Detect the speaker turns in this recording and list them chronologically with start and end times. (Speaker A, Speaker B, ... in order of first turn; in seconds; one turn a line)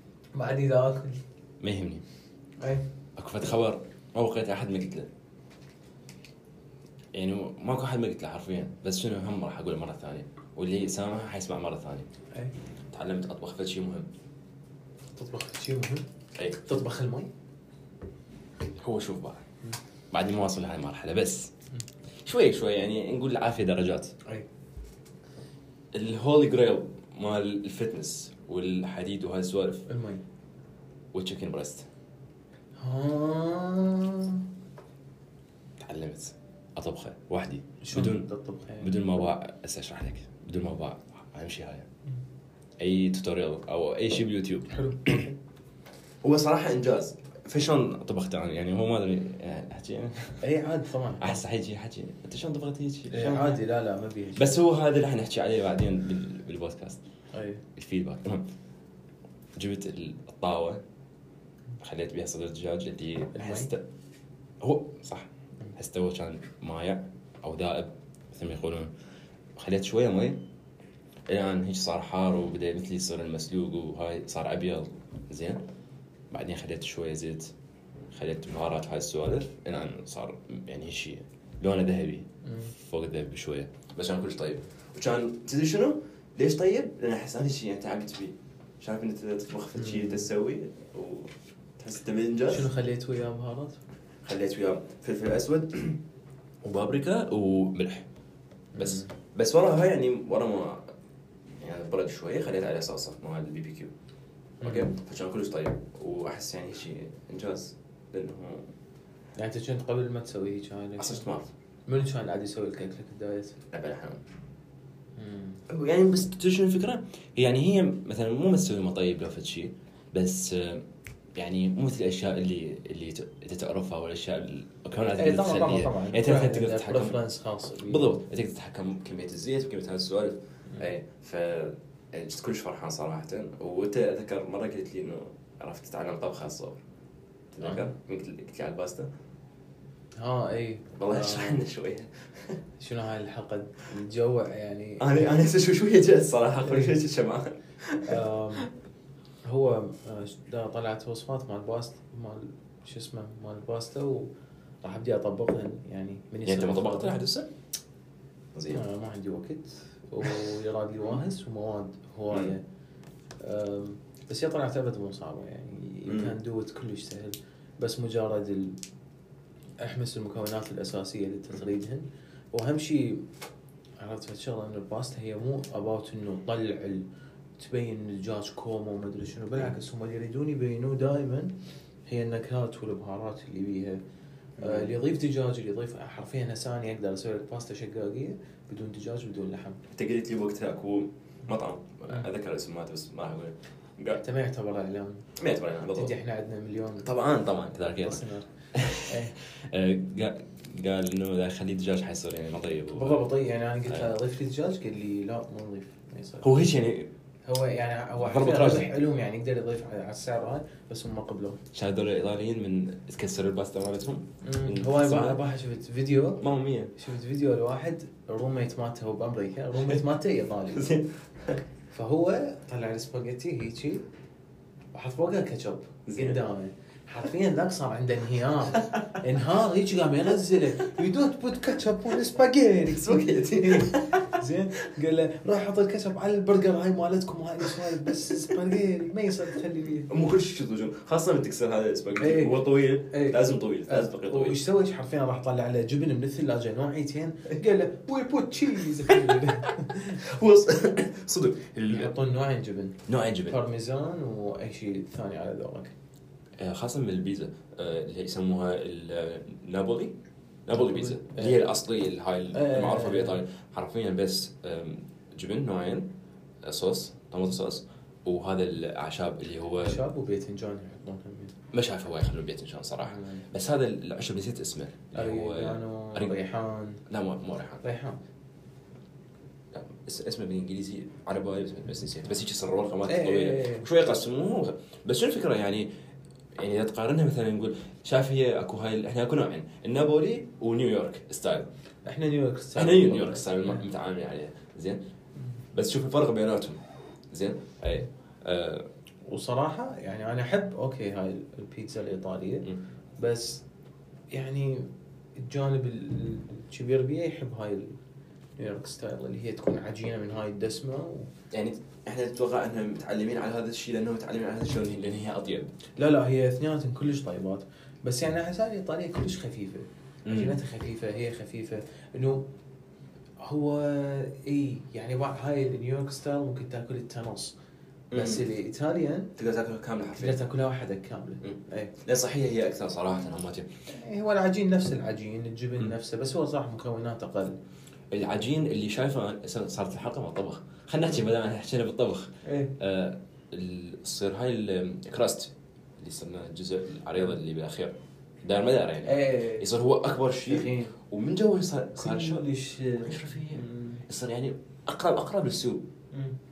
Speaker A: 0.3-1.2
Speaker B: 1.6-2.0
Speaker B: 3.1-5.1
Speaker B: 7.1-12.1
Speaker B: 12.9-14.1
Speaker A: 15.2-16.0
Speaker B: 16.4-16.7
Speaker A: 16.6-17.3
Speaker B: 18.8-19.4
Speaker B: 20.1-21.5
Speaker B: 22.2-24.1
Speaker B: 25.9-29.9
Speaker A: 29.9-30.2
Speaker B: 31.1-31.9
Speaker A: 32.8-34.4
Speaker B: 35.8-38.2
Speaker A: 37.8-38.9
Speaker B: 38.8-41.9
Speaker B: 42.8-45.2
Speaker A: 44.7-45.3
Speaker B: 46.2-50.4
Speaker A: 50.4-51.3
Speaker B: 51.2-53.6
Speaker A: 53.1-54.5
Speaker B: 54.4-57.0
Speaker A: 57.3-57.6
Speaker B: 57.7-58.5
Speaker B: 59.6-60.8
Speaker B: 61.8-63.8
Speaker A: 63.3-63.7
Speaker B: 64.6-68.9
Speaker B: 69.6-70.4
Speaker B: 71.3-75.6
Speaker B: 76.3-77.5
Speaker B: 78.1-92.7
Speaker A: 82.4-82.7
Speaker A: 89.8-90.2
Speaker A: 92.5-93.8
Speaker B: 94.2-96.0
Speaker B: 96.6-98.1
Speaker A: 98.7-99.1
Speaker B: 98.7-100.9
Speaker B: 101.6-103.9
Speaker A: 104.6-104.9
Speaker B: 104.6-108.7
Speaker A: 109.3-111.2
Speaker B: 111.0-111.5
Speaker A: 111.9-113.6
Speaker B: 113.7-114.2
Speaker A: 115.2-115.6
Speaker B: 115.7-120.8
Speaker B: 121.3-127.2
Speaker A: 125.2-128.1
Speaker B: 127.8-136.8
Speaker B: 137.5-139.1
Speaker A: 137.6-137.9
Speaker A: 140.2-141.6
Speaker B: 140.9-142.6
Speaker A: 142.8-145.4
Speaker B: 145.0-148.7
Speaker A: 146.6-147.0
Speaker A: 148.0-148.7
Speaker A: 149.4-154.3
Speaker A: 154.8-157.2
Speaker B: 156.4-157.5
Speaker B: 158.5-158.8
Speaker A: 158.7-162.6
Speaker A: 163.4-168.8
Speaker B: 166.1-166.3
Speaker A: 169.8-173.2
Speaker A: 174.0-177.1
Speaker A: 177.6-181.6
Speaker A: 182.1-184.0
Speaker A: 184.6-189.8
Speaker B: 184.6-184.9
Speaker B: 189.9-194.2
Speaker A: 194.2-195.3
Speaker B: 195.3-196.1
Speaker A: 195.9-197.1
Speaker B: 197.0-203.3
Speaker A: 198.0-199.3
Speaker A: 202.9-206.7
Speaker B: 206.4-207.1
Speaker A: 207.4-211.6
Speaker B: 208.2-208.9
Speaker B: 211.7-215.4
Speaker A: 214.4-216.4
Speaker B: 216.4-216.9
Speaker A: 217.0-221.0
Speaker B: 220.7-221.6
Speaker A: 221.9-224.0
Speaker A: 224.9-240.1
Speaker B: 226.1-226.4
Speaker B: 232.9-234.4
Speaker B: 240.1-244.6
Speaker A: 242.2-250.2
Speaker B: 249.1-252.1
Speaker A: 251.9-255.9
Speaker B: 253.1-253.6
Speaker B: 256.6-260.1
Speaker B: 260.6-266.1
Speaker A: 260.8-261.6
Speaker A: 262.5-263.4
Speaker B: 266.6-270.0
Speaker A: 269.8-271.5
Speaker B: 271.7-276.3
Speaker A: 273.1-273.4
Speaker A: 275.1-277.0
Speaker B: 277.1-277.8
Speaker A: 277.8-278.2
Speaker B: 279.7-285.9
Speaker A: 283.1-283.9
Speaker B: 286.5-291.7
Speaker A: 292.0-293.8
Speaker B: 292.8-295.0
Speaker B: 295.7-296.8
Speaker B: 297.3-298.9
Speaker A: 299.3-303.6
Speaker A: 304.3-307.9
Speaker A: 308.6-311.3
Speaker B: 311.5-315.7
Speaker A: 316.0-322.5
Speaker B: 320.2-320.6
Speaker A: 323.4-327.6
Speaker B: 328.1-328.4
Speaker A: 328.1-329.3
Speaker B: 329.4-330.4
Speaker A: 330.2-331.9
Speaker B: 331.4-333.7
Speaker A: 333.9-337.6
Speaker B: 338.1-355.8
Speaker A: 342.4-342.7
Speaker A: 349.0-349.7
Speaker A: 350.4-350.9
Speaker A: 352.0-354.0